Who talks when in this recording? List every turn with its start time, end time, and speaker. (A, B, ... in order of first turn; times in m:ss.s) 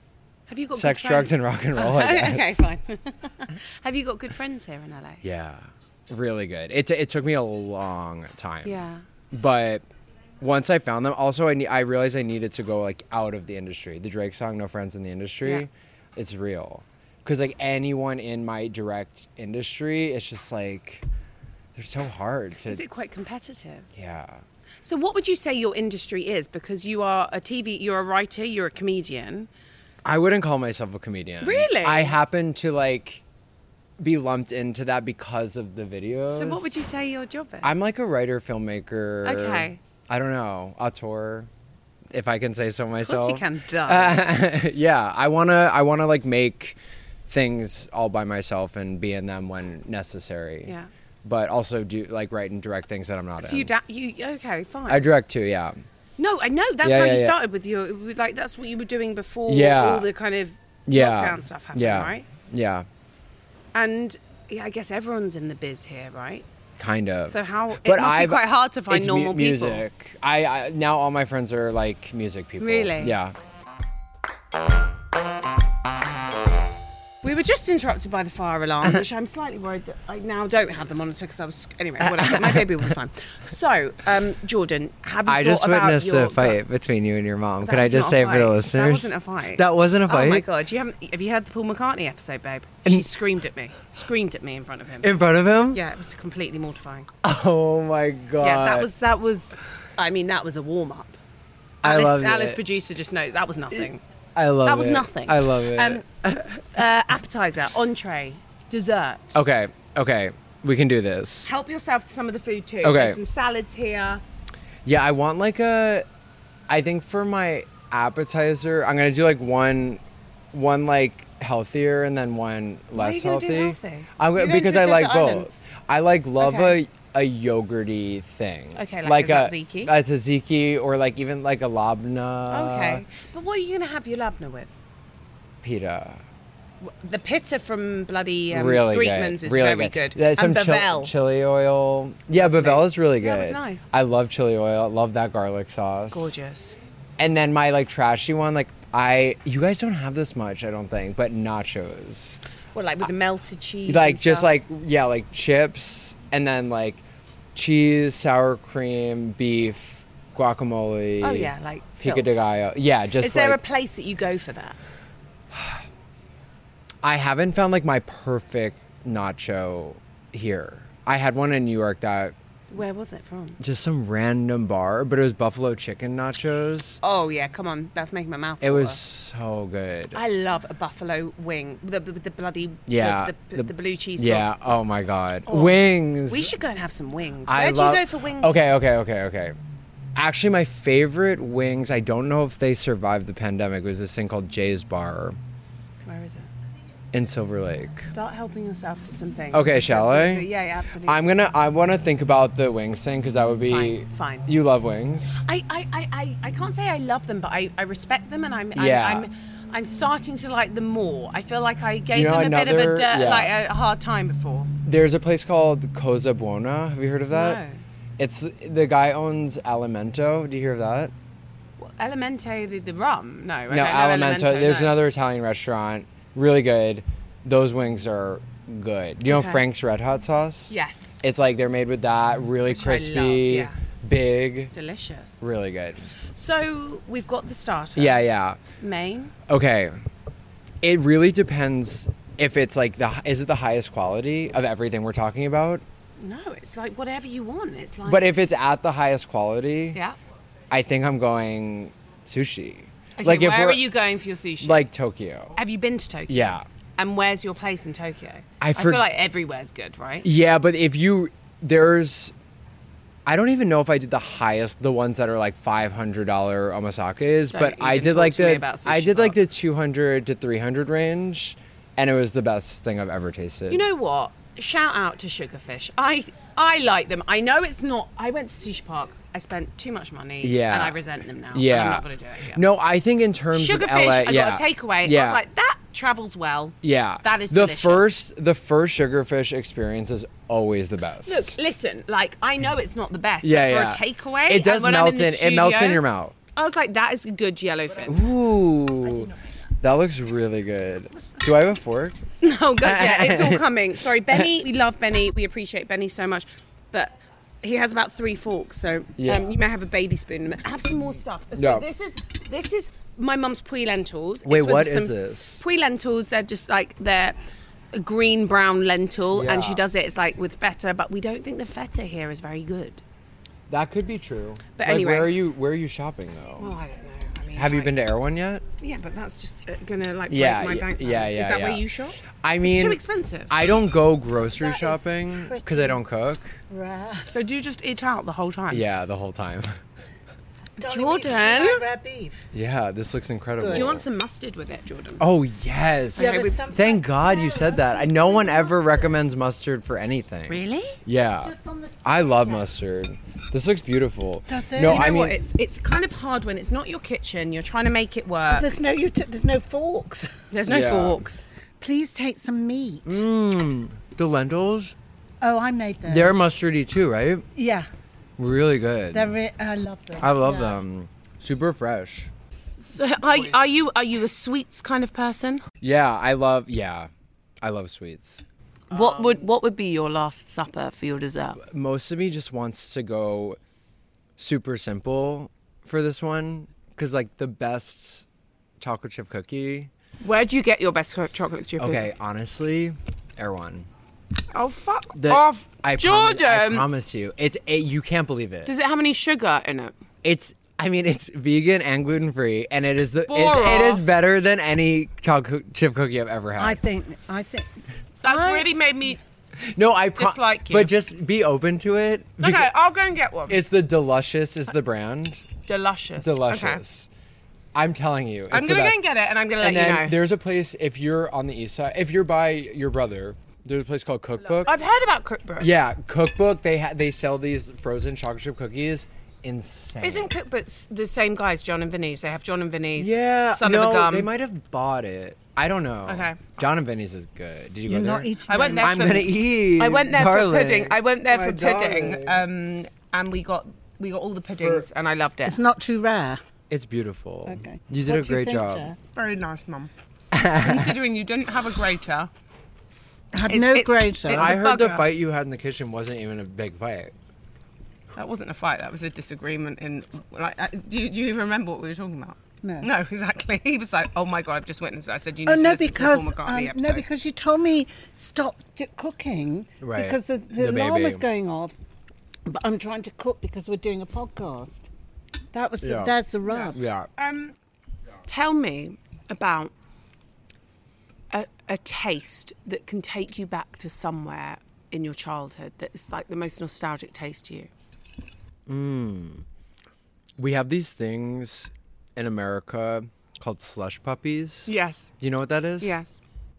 0:00.5-0:05.2 A
0:00.8-0:02.7 B
0:05.2-0:09.8 B
0:08.6-0:09.0 A
0:10.4-0:21.0 B
0:21.8-0:22.8 B
0:22.6-0:23.9 A
0:24.0-0:24.4 B
0:24.8-0:29.5 A
0:30.0-0:33.2 B
0:31.4-0:32.2 A
0:34.0-0:36.7 B
0:36.3-0:37.7 A
0:37.6-0:41.5 B
0:39.2-0:39.8 A
0:42.1-0:46.8 B
0:43.0-0:44.3 A
0:47.3-0:53.7 B
0:53.4-0:55.1 A
0:54.9-0:55.8 B
0:56.2-1:02.3 A
0:56.8-0:57.4 B
0:59.5-1:00.1 B
1:00.9-1:02.9 B
1:03.7-1:06.5 A
1:06.8-1:13.3 B
1:07.3-1:09.8 A
1:12.6-1:13.2 A
1:17.2-1:26.6 A
1:22.0-1:23.0 B
1:25.3-1:30.4 B
1:27.6-1:37.1 A
1:35.0-1:35.8 B
1:37.2-1:38.9 B
1:38.4-1:41.2 A
1:41.8-1:44.0 A
1:41.8-1:42.6 B
1:44.4-1:46.8 B
1:44.6-1:46.0 A
1:46.7-1:49.4 A
1:49.3-1:51.5 B
1:51.4-1:54.2 A
1:52.8-1:53.2 B
1:54.8-1:56.1 B
1:56.7-2:00.0 B
2:00.5-2:13.0 B
2:02.9-2:05.5 A
2:06.4-2:06.8 A
2:08.8-2:09.9 A
2:12.5-2:14.7 A
2:15.6-2:16.2 B
2:16.8-2:21.1 A
2:18.5-2:26.4 B
2:22.3-2:24.0 A
2:26.1-2:26.8 A
2:27.2-2:32.4 B
2:32.7-2:34.6 A
2:33.9-2:37.0 B
2:37.6-2:43.6 B
2:41.2-2:42.4 A
2:43.2-2:44.8 A
2:45.5-2:45.8 B
2:47.0-2:52.4 B
2:52.7-2:53.6 A
2:53.6-2:57.0 B
2:57.0-2:59.0 A
2:58.6-3:00.2 B
3:00.1-3:04.5 A
3:02.9-3:06.5 B
3:05.5-3:08.6 A
3:07.5-3:09.6 B
3:10.2-3:15.4 B
3:16.0-3:16.5 A
3:17.1-3:18.1 B
3:18.0-3:21.2 A
3:19.5-3:20.5 B
3:21.0-3:25.4 B
3:23.6-3:24.5 A
3:25.4-3:34.7 A
3:28.8-3:29.3 B
3:32.1-3:33.5 B
3:34.8-3:37.6 B
3:37.3-3:37.8 A
3:38.2-3:41.1 B
3:41.8-3:45.0 A
3:43.7-3:54.7 B
3:49.3-3:49.6 A
3:50.7-3:51.2 A
3:52.7-3:53.8 A
3:54.7-3:55.4 A
3:55.4-3:56.1 B
3:56.3-3:58.3 A
3:58.0-3:58.6 B
3:58.8-3:59.3 A
3:59.5-4:00.0 B
4:00.8-4:05.8 B
4:06.2-4:08.3 A
4:08.0-4:10.0 B
4:10.7-4:13.9 B
4:13.2-4:14.9 A
4:14.6-4:15.6 B
4:15.6-4:20.3 A
4:16.3-4:16.6 B
4:18.6-4:19.0 B
4:20.2-4:22.3 B
4:23.3-4:33.8 B
4:27.5-4:29.4 A
4:33.7-4:42.6 A
4:40.4-4:41.0 B
4:41.5-4:45.4 B
4:43.5-4:48.2 A
4:46.8-4:51.6 B
4:51.2-4:58.2 A
4:53.4-4:56.4 B
4:58.0-5:02.2 B
5:02.4-5:17.4 A
5:02.8-5:03.7 B
5:09.2-5:09.5 B
5:11.6-5:11.9 B
5:14.5-5:15.6 B
5:17.9-5:23.0 A
5:19.3-5:19.8 B
5:23.7-5:26.7 B
5:24.8-5:25.3 A
5:26.6-5:28.0 A
5:27.6-5:28.6 B
5:28.8-5:33.6 A
5:30.3-5:31.9 B
5:32.4-5:36.6 B
5:34.3-5:36.0 C
5:36.7-5:37.4 C
5:37.3-5:38.8 A
5:38.7-5:39.8 B
5:40.8-5:42.5 C
5:40.8-5:41.8 A
5:42.5-5:44.0 B
5:43.6-5:43.9 C
5:43.7-5:45.3 A
5:45.2-5:55.4 B
5:46.2-5:46.8 A
5:46.2-5:49.2 C
5:50.5-5:51.0 A
5:51.4-5:52.7 C
5:54.5-5:55.2 C
5:54.9-5:58.7 A
5:58.5-6:00.4 C
6:00.5-6:01.4 A
6:00.7-6:01.2 B
6:01.8-6:03.2 C
6:03.1-6:05.0 B
6:05.4-6:06.4 C
6:06.1-6:07.4 B
6:07.6-6:07.9 C
6:08.4-6:09.3 B
6:09.1-6:10.8 C
6:10.2-6:12.3 B
6:12.6-6:15.6 A
6:15.8-6:17.1 B
6:17.6-6:18.4 B
6:18.9-6:21.6 A
6:21.6-6:23.6 B
6:24.4-6:28.2 B
6:28.8-6:29.9 B
6:30.2-6:32.1 A
6:31.8-6:33.9 B
6:34.5-6:36.9 A
6:35.2-6:38.7 B
6:38.6-6:39.9 A
6:40.2-6:46.8 B
6:43.3-6:44.0 A
6:46.6-6:48.7 C
6:48.2-6:49.2 A
6:49.7-6:52.7 B
6:50.2-6:50.9 A
6:52.4-6:53.6 A
6:53.5-6:55.5 B
6:55.7-6:56.8 A
6:56.2-6:57.1 B
6:57.7-6:59.1 B
6:58.5-7:00.2 A
6:59.6-7:04.8 B
7:04.6-7:05.7 A
7:05.6-7:10.3 B
7:10.0-7:14.3 A
7:13.0-7:22.4 B
7:16.1-7:16.4 A
7:17.9-7:19.3 C
7:18.5-7:25.6 A
7:24.6-7:24.9 B
7:25.5-7:26.4 C
7:26.7-7:28.9 B
7:27.4-7:29.0 C
7:29.1-7:29.9 A
7:30.3-7:31.0 B
7:30.6-7:32.3 A
7:33.3-7:34.6 C
7:33.5-7:35.1 A
7:34.3-7:37.1 B
7:38.1-7:47.0 A
7:42.6-7:42.9 C
7:45.5-7:51.8 C
7:49.8-7:51.2 B
7:52.4-7:54.9 C
7:55.5-7:56.8 C
7:55.8-7:56.2 B
7:56.5-7:57.6 A
7:56.8-7:57.1 B
7:58.3-7:59.7 A
8:01.3-8:07.7 A
8:08.7-8:09.4 B
8:10.4-8:14.7 B
8:14.7-8:15.1 A
8:15.2-8:16.0 B
8:15.8-8:16.2 A